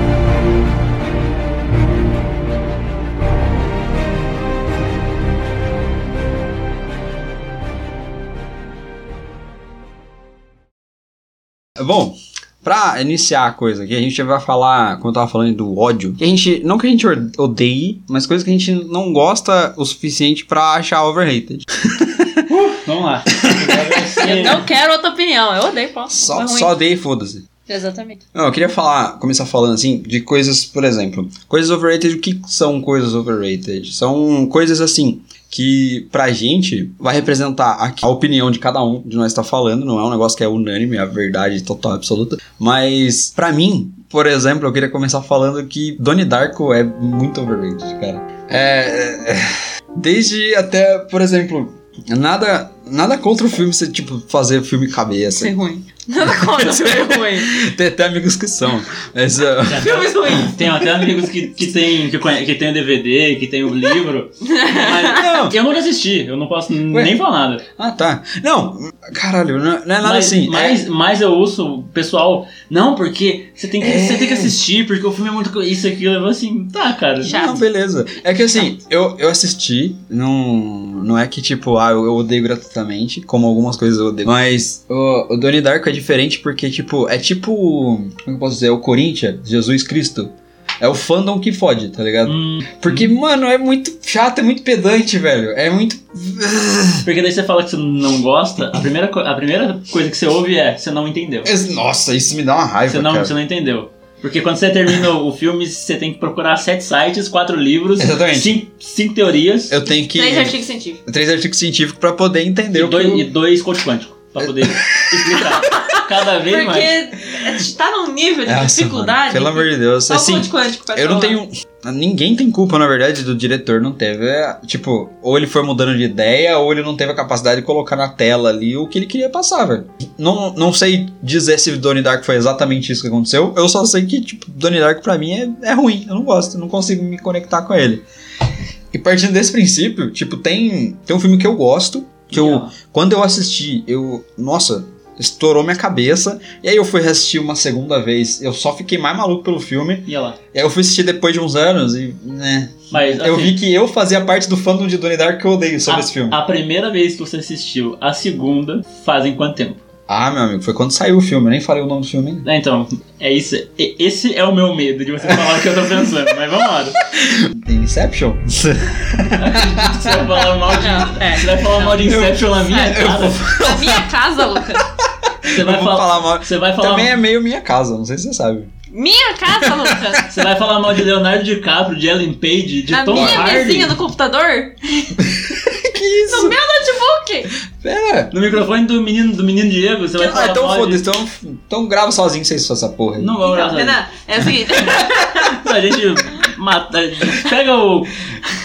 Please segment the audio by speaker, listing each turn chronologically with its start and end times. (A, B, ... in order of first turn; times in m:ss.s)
0:11.8-0:22.5 A
0:22.5-0:24.6 B
0:23.3-0:24.3 A
0:24.2-0:26.7 C
0:26.1-0:27.4 A
0:27.7-0:28.2 C
0:28.3-0:55.5 A
0:55.4-0:57.5 C
0:56.2-1:01.1 A
0:59.6-1:07.6 B
0:59.8-1:00.6 C
1:04.4-1:05.3 C
1:05.1-1:05.6 A
1:07.8-1:10.8 A
1:10.0-1:17.3 B
1:13.8-1:14.6 A
1:17.2-1:37.1 A
1:17.2-1:17.6 C
1:32.2-1:33.1 B
1:37.0-1:41.5 B
1:41.4-1:43.3 A
1:42.9-1:49.7 B
1:48.0-1:48.6 A
1:49.7-1:53.3 A
1:50.1-1:51.0 C
1:52.7-1:57.0 B
1:54.4-1:55.5 A
1:55.7-2:01.4 C
1:58.4-2:18.0 A
2:18.9-2:36.4 A
2:22.3-2:22.7 B
2:30.1-2:30.4 B
2:32.9-2:33.6 B
2:35.9-2:39.8 B
2:40.1-2:42.4 A
2:42.4-2:47.0 B
2:45.3-2:45.6 A
2:47.1-2:50.3 A
2:49.3-2:53.4 B
2:50.8-2:52.0 C
2:52.0-2:58.7 A
2:53.5-2:54.8 C
2:55.5-2:57.2 B
2:58.9-3:00.2 C
2:59.6-3:00.4 A
3:00.3-3:04.0 B
3:02.9-3:05.2 C
3:03.1-3:03.5 A
3:05.2-3:06.6 A
3:06.3-3:07.5 C
3:07.7-3:08.3 A
3:08.3-3:11.0 B
3:10.2-3:10.6 C
3:10.3-3:13.4 A
3:13.2-3:14.0 B
3:13.4-3:15.6 C
3:15.4-3:18.2 B